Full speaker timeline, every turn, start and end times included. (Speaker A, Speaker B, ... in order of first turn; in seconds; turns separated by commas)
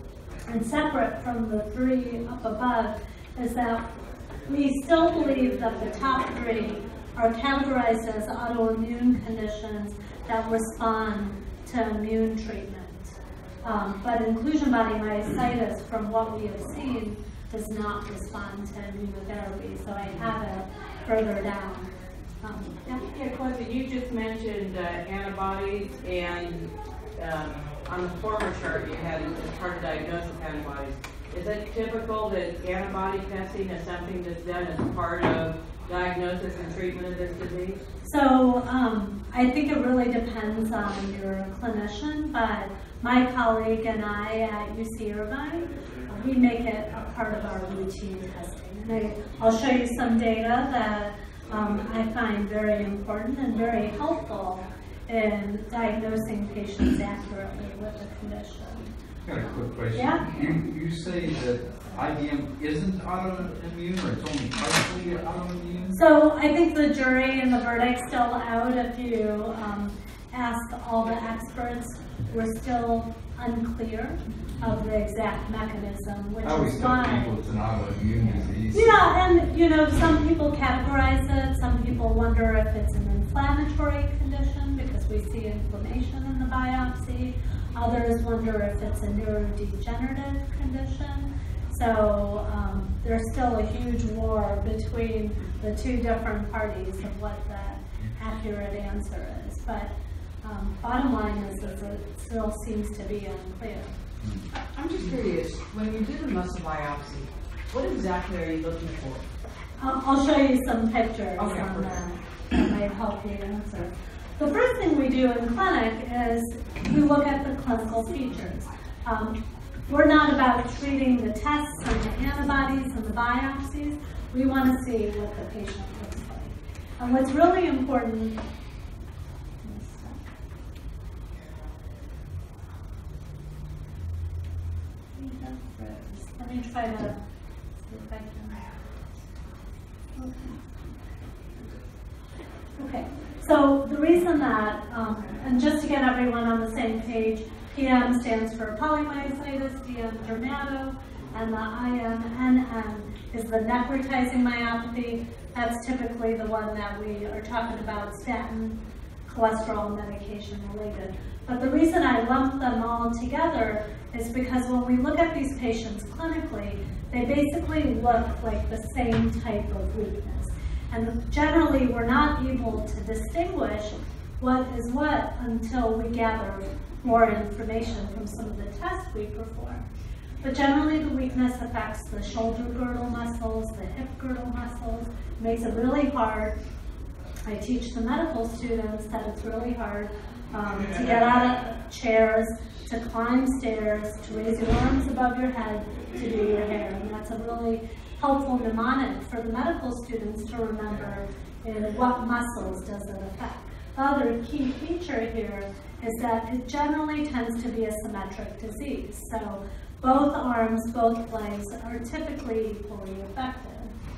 Speaker A: 0.5-3.9, Speaker A: 4.5-13.1, Speaker A: 13.6-22.7, Speaker B: 22.8-37.8, Speaker A: 38.0-58.9, Speaker C: 59.2-66.0, Speaker A: 59.9-60.2, Speaker A: 65.9-77.3, Speaker C: 76.4-79.0, Speaker A: 78.7-99.9, Speaker A: 100.4-103.9, Speaker C: 104.2-104.5, Speaker D: 104.5-109.2, Speaker A: 109.8-119.4, Speaker D: 111.4-112.0, Speaker A: 119.9-128.4, Speaker A: 129.6-130.2, Speaker A: 135.1-137.2, Speaker A: 137.8-138.7, Speaker A: 140.1-140.5, Speaker A: 142.8-179.8, Speaker A: 180.4-186.5, Speaker A: 187.4-213.9